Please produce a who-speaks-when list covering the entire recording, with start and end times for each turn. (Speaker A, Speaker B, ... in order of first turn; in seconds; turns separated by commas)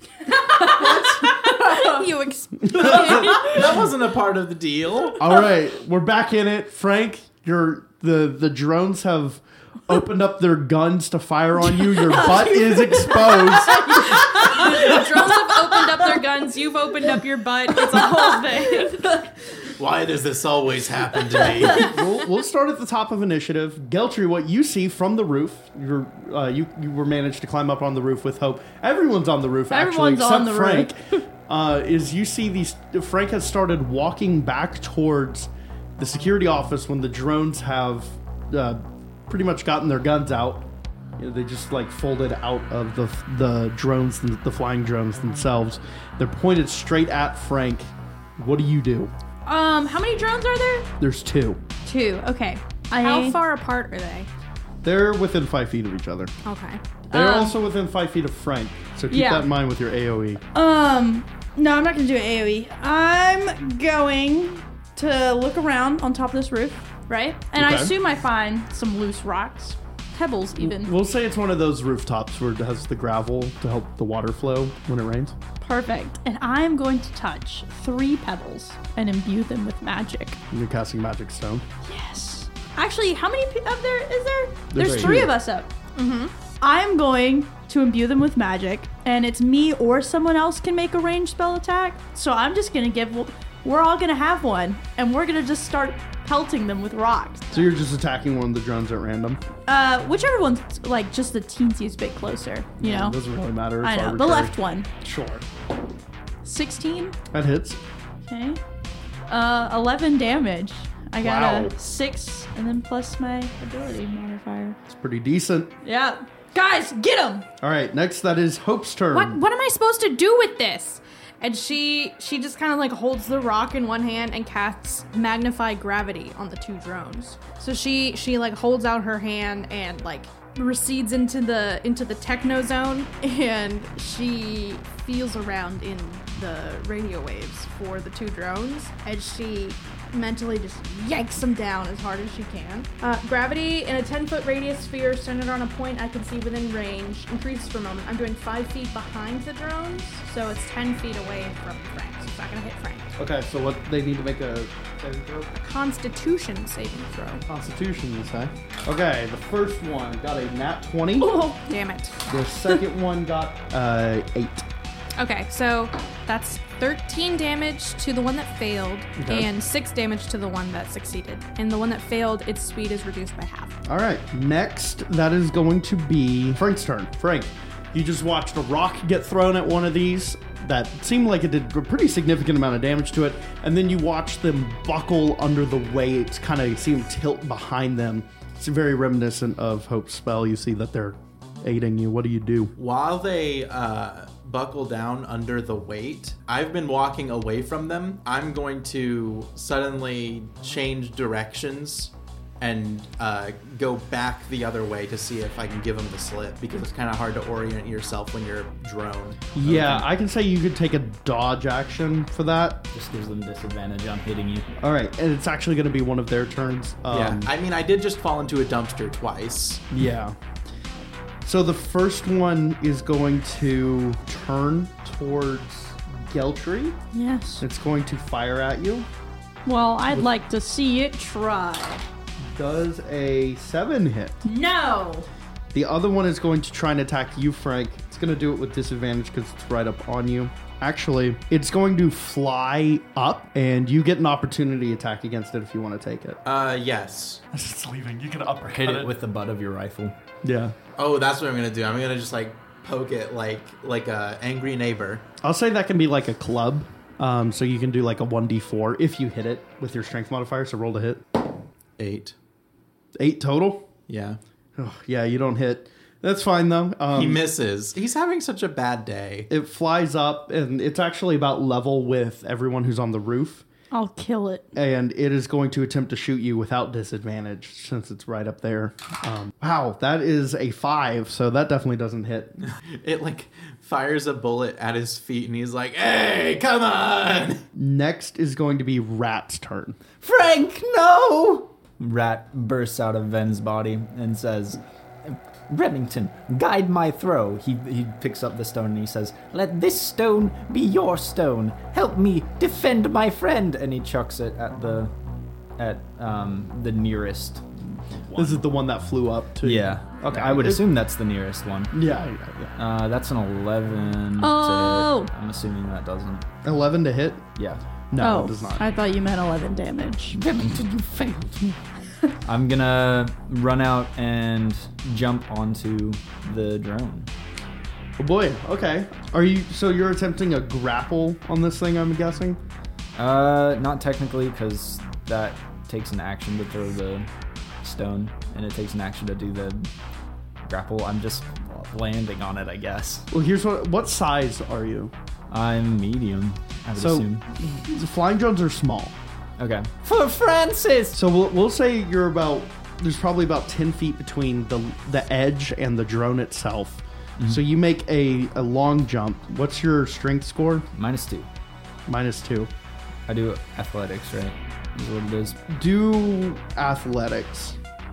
Speaker A: 0.3-2.0, Speaker B: 0.6-3.6, Speaker C: 2.6-3.1, Speaker A: 2.8-3.6, Speaker D: 2.9-5.2, Speaker C: 5.2-14.2, Speaker A: 12.2-16.2, Speaker B: 14.0-19.2, Speaker A: 17.9-19.3, Speaker D: 19.8-21.9, Speaker C: 21.7-40.7, Speaker A: 29.7-31.2, Speaker C: 41.2-49.1, Speaker A: 49.5-50.9, Speaker C: 51.0-51.6, Speaker A: 51.9-53.4, Speaker B: 52.9-54.3, Speaker C: 54.8-56.3, Speaker B: 56.4-56.8, Speaker A: 57.1-57.6, Speaker C: 57.1-60.4, Speaker A: 59.1-59.5, Speaker A: 60.5-70.9, Speaker C: 67.5-67.9, Speaker C: 70.6-75.3, Speaker A: 75.6-80.4, Speaker C: 80.5-81.7, Speaker A: 81.8-85.7, Speaker C: 84.7-85.3, Speaker E: 84.8-85.2, Speaker B: 86.0-86.3, Speaker A: 86.6-97.6, Speaker C: 97.5-99.4, Speaker A: 99.7-103.2, Speaker C: 102.8-105.5, Speaker A: 103.8-104.9, Speaker A: 106.4-107.2, Speaker C: 107.3-107.8, Speaker A: 108.3-108.6, Speaker A: 109.3-114.8, Speaker C: 111.2-111.7, Speaker C: 114.9-115.7, Speaker A: 115.8-117.5, Speaker C: 117.6-119.4, Speaker B: 119.1-153.1, Speaker C: 153.2-155.5, Speaker B: 155.6-157.4, Speaker C: 157.5-161.5, Speaker B: 161.4-162.2, Speaker C: 162.3-164.7, Speaker B: 165.2-173.8, Speaker C: 169.2-169.5, Speaker C: 173.8-192.7, Speaker D: 192.8-210.0, Speaker C: 209.6-212.9, Speaker E: 212.9-214.7, Speaker C: 214.8-217.5, Speaker D: 217.1-219.8, Speaker C: 219.9-220.4, Speaker C: 221.4-227.0, Speaker A: 227.1-227.7, Speaker C: 227.6-229.1, Speaker A: 229.7-232.1, Speaker C: 232.4-234.4, Speaker A: 234.4-235.3, Speaker C: 235.7-246.4, Speaker D: 246.4-247.4, Speaker C: 247.5-249.1, Speaker E: 248.8-250.2, Speaker C: 250.4-250.8, Speaker D: 251.0-255.2, Speaker C: 255.4-261.2, Speaker D: 262.0-262.3, Speaker C: 263.2-263.9, Speaker D: 264.1-264.4, Speaker C: 264.8-267.4, Speaker D: 267.1-269.5, Speaker C: 269.5-273.6, Speaker A: 273.9-274.7, Speaker C: 274.8-282.6, Speaker D: 282.6-287.6, Speaker C: 287.8-290.0, Speaker E: 290.2-305.1, Speaker E: 305.8-307.7, Speaker C: 308.4-310.9, Speaker E: 309.6-311.9, Speaker C: 311.9-312.7, Speaker E: 312.8-316.4, Speaker A: 314.4-315.3, Speaker C: 316.6-317.5, Speaker E: 317.6-317.8, Speaker C: 318.1-318.9, Speaker A: 318.2-320.4, Speaker E: 320.3-321.8, Speaker E: 322.4-327.3, Speaker C: 328.2-332.6, Speaker E: 333.2-337.3, Speaker E: 337.8-339.9, Speaker E: 340.6-343.3, Speaker C: 343.3-345.1, Speaker E: 345.5-347.4, Speaker C: 347.0-347.3, Speaker C: 347.8-349.1, Speaker E: 349.6-351.2, Speaker C: 351.1-360.9, Speaker E: 360.9-361.5, Speaker C: 362.1-362.7, Speaker E: 363.3-365.6, Speaker C: 365.7-367.8